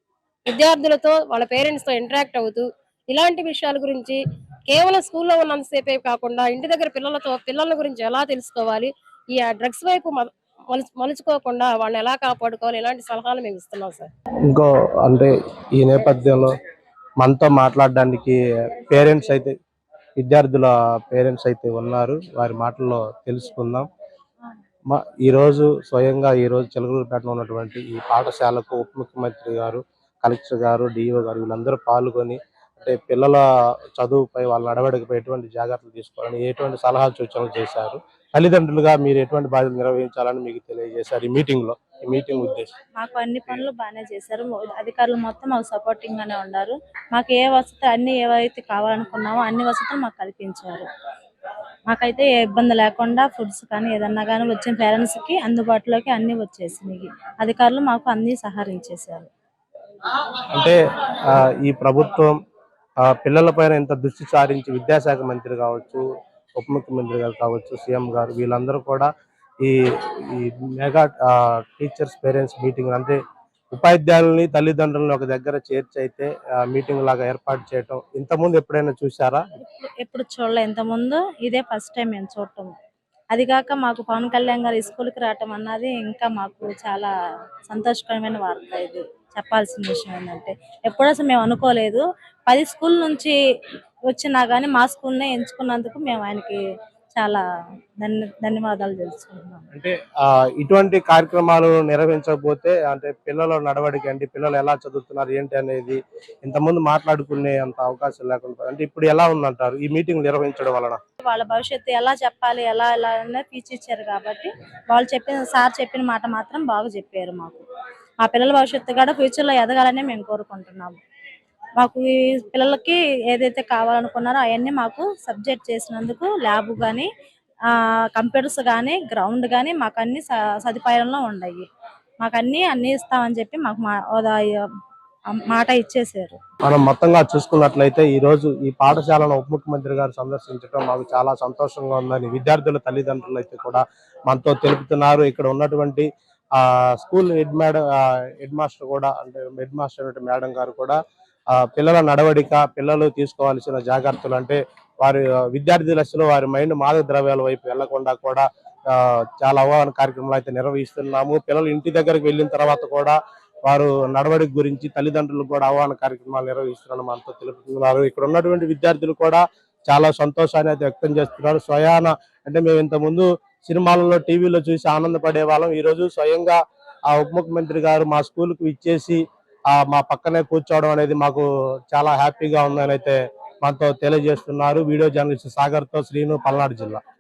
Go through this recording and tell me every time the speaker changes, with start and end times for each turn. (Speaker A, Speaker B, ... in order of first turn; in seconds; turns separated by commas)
Speaker A: 0.5-14.1, Speaker B: 14.5-16.5, Speaker B: 17.2-19.5, Speaker B: 20.2-23.9, Speaker B: 24.9-33.4, Speaker B: 34.0-42.7, Speaker C: 43.0-50.9, Speaker C: 51.9-59.3, Speaker B: 60.5-60.8, Speaker B: 61.3-62.4, Speaker B: 63.1-66.0, Speaker B: 66.6-69.1, Speaker B: 70.3-73.2, Speaker B: 73.7-79.5, Speaker C: 79.6-82.7, Speaker C: 83.3-87.1, Speaker C: 87.7-93.3, Speaker C: 94.1-96.6, Speaker C: 97.1-97.4, Speaker C: 98.0-99.7, Speaker B: 100.6-111.0, Speaker C: 111.2-117.6, Speaker C: 118.2-121.0, Speaker C: 121.8-127.1, Speaker C: 128.2-131.7, Speaker C: 132.2-134.4, Speaker C: 135.5-136.4, Speaker B: 136.7-146.1, Speaker B: 146.6-151.0, Speaker B: 151.6-176.6, Speaker B: 177.1-187.0